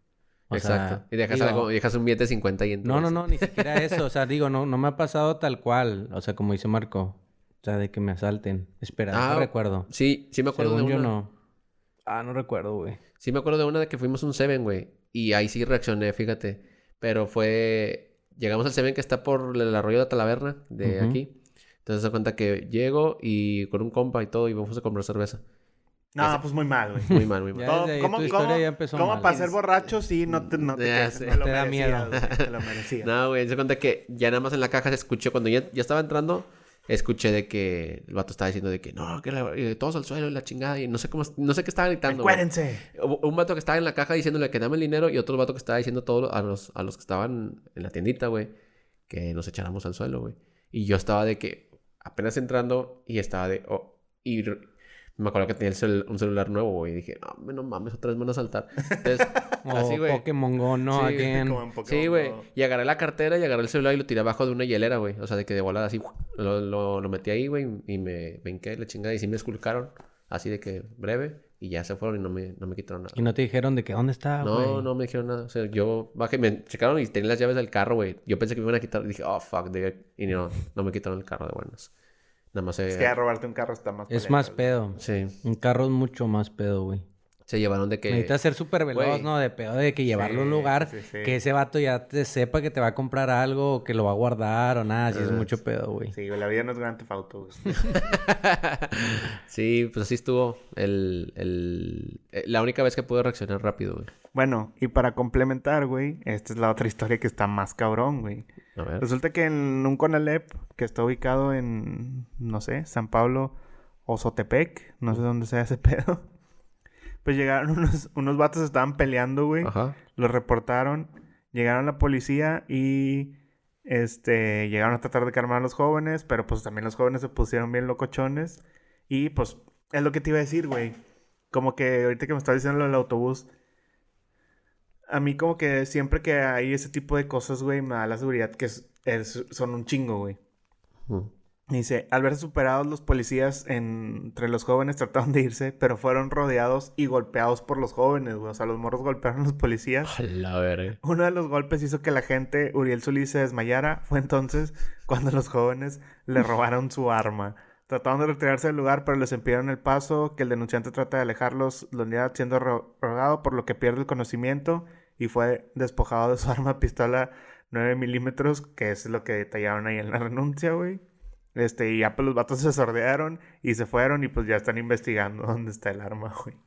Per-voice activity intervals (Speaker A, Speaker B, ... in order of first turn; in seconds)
Speaker A: 0.5-1.7, 2.8-9.9, 10.5-11.3, 12.1-13.0, 20.8-21.2, 27.1-29.3, 31.3-32.1, 59.6-61.6, 73.1-74.9, 84.1-87.0, 88.1-96.1
Speaker B: 0.5-4.0, 9.1-11.1, 13.2-21.3, 21.9-25.4, 27.1-27.8, 29.3-29.6, 30.3-31.4, 32.1-48.5, 49.1-60.2, 60.9-73.2, 74.4-81.9, 82.5-83.2, 85.0-85.4, 87.5-88.4, 88.9-89.3, 95.1-95.5, 97.9-104.1, 108.8-109.1, 119.6-120.0, 150.1-151.0
Speaker C: 26.1-33.1, 42.1-42.9, 61.3-62.5, 82.9-84.7, 90.1-91.4, 96.1-98.0, 104.3-108.5, 109.0-116.3, 117.2-130.9, 131.5-133.5, 135.1-140.4, 141.7-150.1, 151.0-171.0, 171.6-176.6